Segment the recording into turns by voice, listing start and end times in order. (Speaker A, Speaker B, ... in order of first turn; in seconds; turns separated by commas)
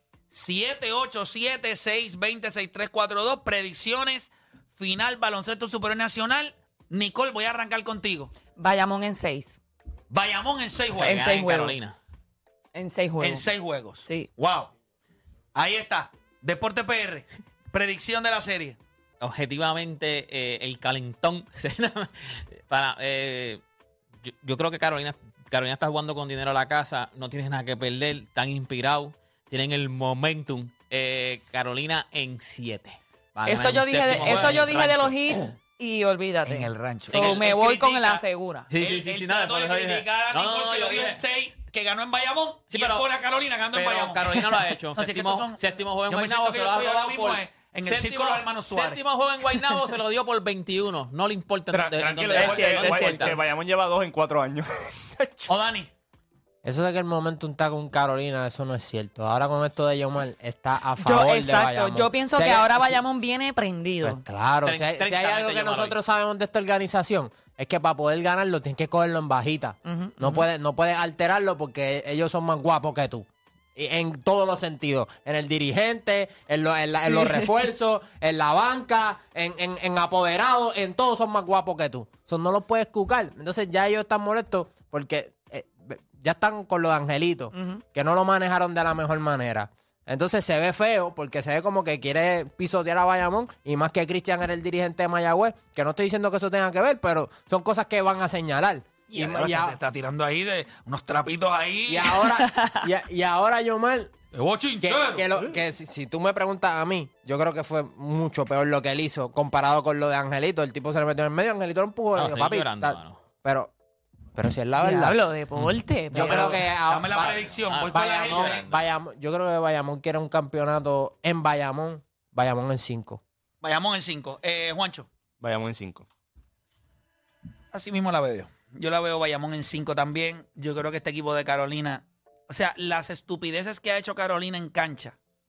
Speaker A: 0.3-8.3, Speaker B: 8.6-9.6, Speaker A: 10.1-11.2, Speaker C: 10.9-12.0, Speaker B: 11.0-11.8, Speaker B: 12.7-13.5, Speaker A: 13.2-14.7, Speaker B: 14.0-14.3, Speaker A: 15.6-18.8, Speaker C: 19.2-23.6, Speaker C: 24.2-35.3, Speaker B: 33.5-38.7, Speaker A: 36.5-38.2, Speaker C: 37.1-37.6, Speaker C: 38.7-41.2, Speaker A: 38.8-44.4, Speaker C: 42.7-43.1, Speaker C: 43.7-53.4, Speaker A: 45.0-49.0, Speaker D: 51.7-55.5, Speaker A: 51.9-52.8, Speaker B: 52.5-53.3, Speaker A: 55.5-55.9, Speaker E: 56.6-63.0, Speaker B: 61.0-64.2, Speaker E: 64.0-99.8, Speaker C: 64.7-66.0, Speaker B: 69.8-70.4, Speaker B: 77.2-77.5, Speaker B: 87.5-87.8, Speaker A: 99.1-102.1, Speaker E: 101.9-104.1, Speaker B: 102.4-102.8, Speaker A: 104.3-105.3, Speaker E: 104.8-113.7, Speaker C: 112.2-113.2, Speaker E: 114.3-115.2, Speaker B: 114.8-116.4, Speaker C: 115.5-115.8, Speaker E: 116.1-123.2, Speaker A: 116.2-118.6, Speaker C: 117.7-118.8, Speaker A: 123.6-125.1, Speaker D: 125.4-126.1, Speaker A: 127.7-135.2